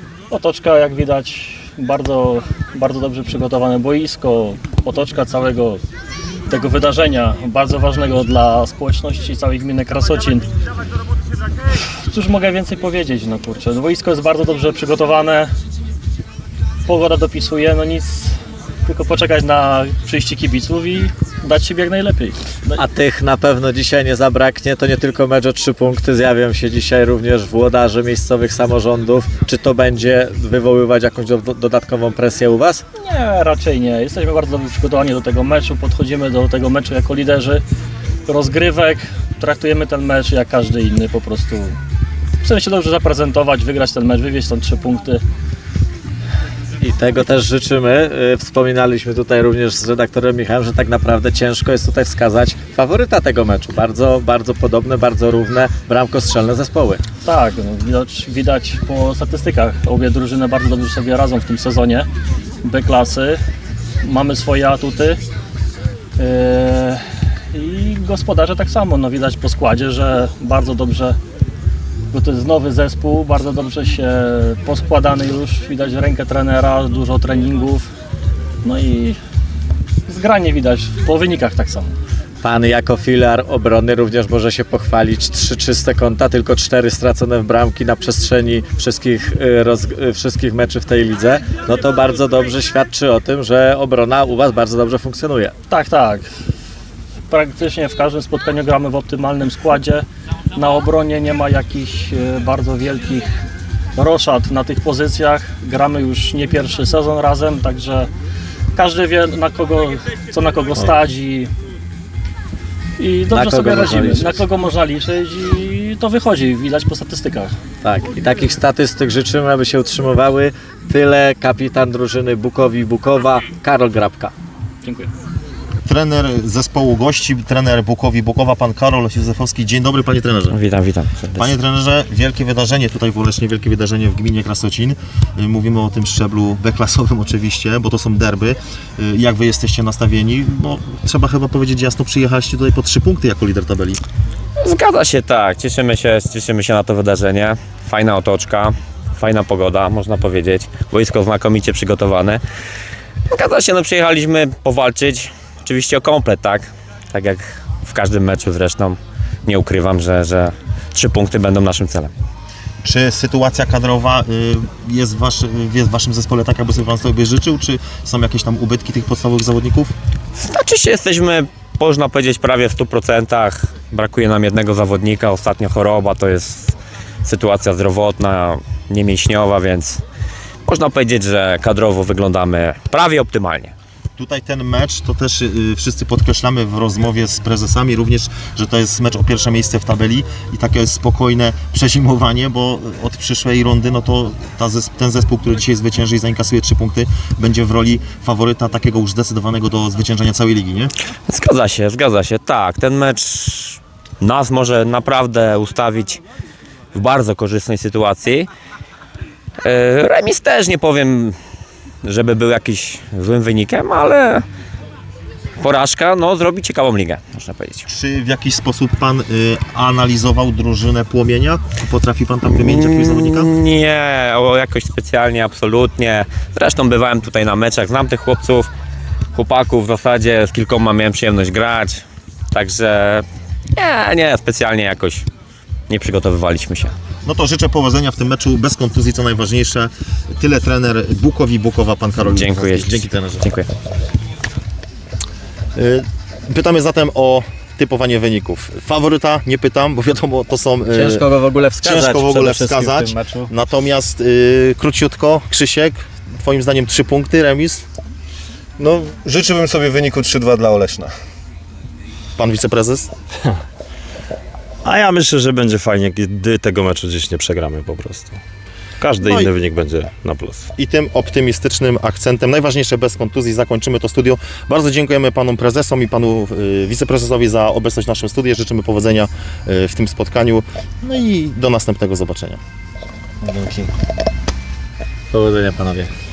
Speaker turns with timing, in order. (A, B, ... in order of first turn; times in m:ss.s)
0:00.3-0:05.8 A
0:06.5-0:10.5 A
0:12.1-0:15.5 A
0:16.8-0:18.3 A
0:18.8-0:22.8 A
0:22.7-0:32.8 B
0:33.0-0:37.6 A
0:38.2-0:41.7 A
0:42.4-0:45.2 A
0:46.8-0:57.0 B
0:57.2-1:02.1 A
1:02.6-1:03.4 A
1:04.0-1:05.2 A
1:06.2-1:11.2 A
1:12.1-1:17.8 A
1:18.6-1:19.2 A
1:20.1-1:21.9 A
1:22.4-1:35.5 B
1:35.7-1:36.3 A
1:37.3-1:43.2 A
1:44.0-1:48.1 A
1:48.8-1:51.5 A
1:53.0-1:57.5 A
1:53.3-1:54.4 B
1:57.8-2:04.3 B
2:04.8-2:05.1 A
2:05.8-2:10.6 C
2:10.5-2:11.5 D
2:11.3-2:24.0 C
2:24.6-2:32.4 D
2:33.3-2:42.1 D
2:42.8-2:49.9 C
2:50.4-3:00.0 D
3:00.7-3:03.7 D
3:04.2-3:20.9 C
3:21.3-3:26.2 D
3:26.9-3:28.5 D
3:29.6-3:31.4 D
3:32.0-3:34.4 D
3:35.6-3:37.8 D
3:37.9-3:43.5 C
3:42.6-3:48.7 D
3:49.3-3:53.2 D
3:53.8-3:55.2 D
3:55.9-3:56.9 D
3:57.2-4:03.5 C
4:02.2-4:03.7 D
4:05.7-4:11.2 C
4:10.9-4:13.5 B
4:11.8-4:17.8 C
4:18.8-4:21.1 E
4:22.4-4:23.1 C
4:24.8-4:28.4 F
4:29.0-4:30.7 F
4:29.2-4:29.5 C
4:30.8-4:42.6 C
4:43.5-4:43.8 E
4:45.3-4:46.1 B